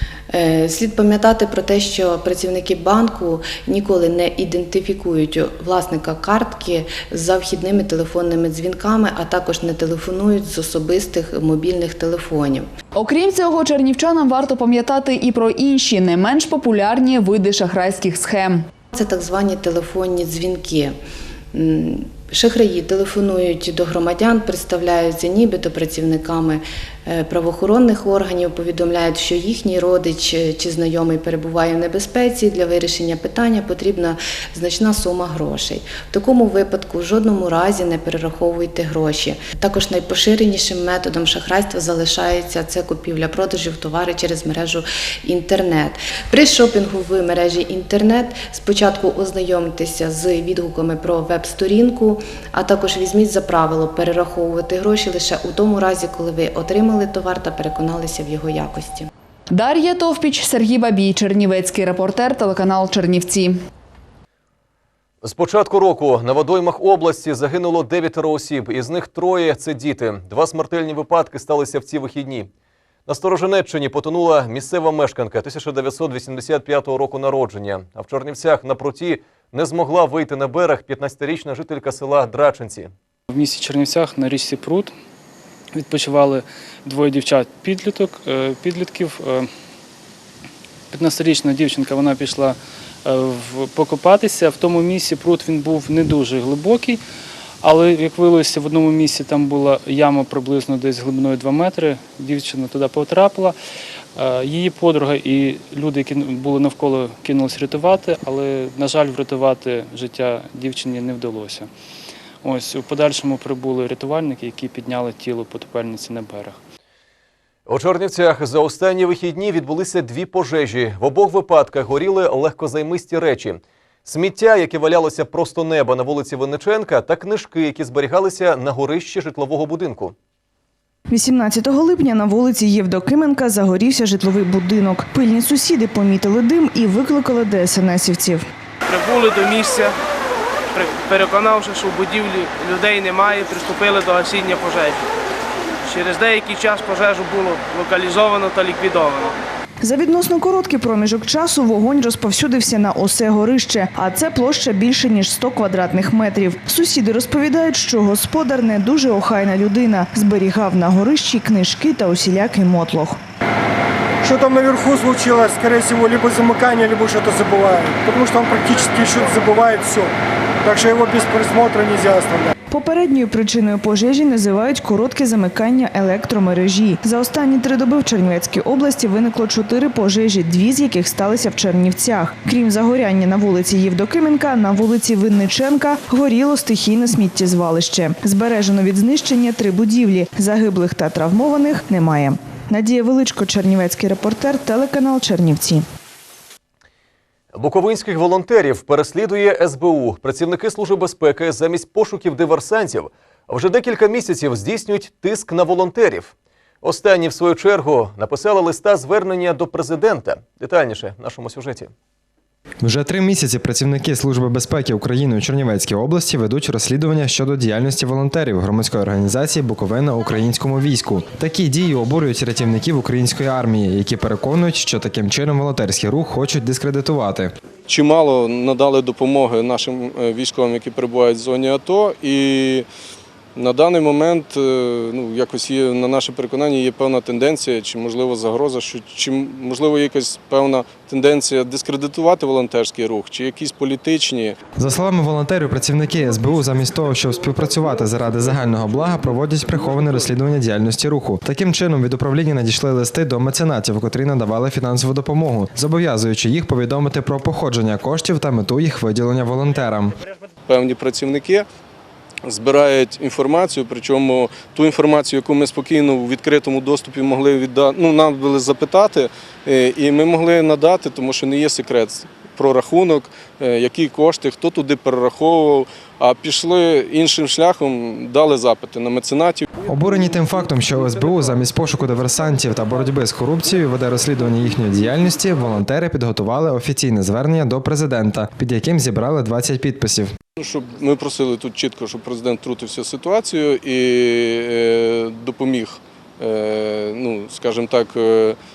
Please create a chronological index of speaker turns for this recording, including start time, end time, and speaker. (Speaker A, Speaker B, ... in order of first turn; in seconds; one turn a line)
Speaker A: 0.3-12.7
Speaker B: 12.9-18.7
Speaker A: 18.9-21.0
Speaker A: 21.5-59.1
Speaker B: 59.5-63.5
Speaker C: 65.2-72.5
Speaker C: 73.1-82.9
Speaker D: 83.3-84.9
Speaker D: 85.8-89.5
Speaker D: 90.9-97.0
Speaker D: 97.6-103.6
Speaker D: 104.2-111.7
Speaker D: 112.4-116.6
Speaker C: 117.7-130.1
Speaker E: 131.1-138.4
Speaker F: 138.9-139.9
Speaker F: 140.7-145.0
Speaker F: 145.9-149.3
Speaker E: 149.8-163.2
Speaker G: 164.3-170.1
Speaker G: 170.7-172.4
Speaker E: 172.7-195.8
Speaker C: 197.5-206.3
Speaker C: 206.8-211.9
Speaker H: 212.8-227.5
Speaker I: 227.9-232.9
Speaker I: 233.6-244.6
Speaker H: 244.8-260.1
Speaker I: 260.7-261.7
Speaker I: 262.4-279.7
Speaker H: 279.9-290.3
Speaker I: 290.6-298.6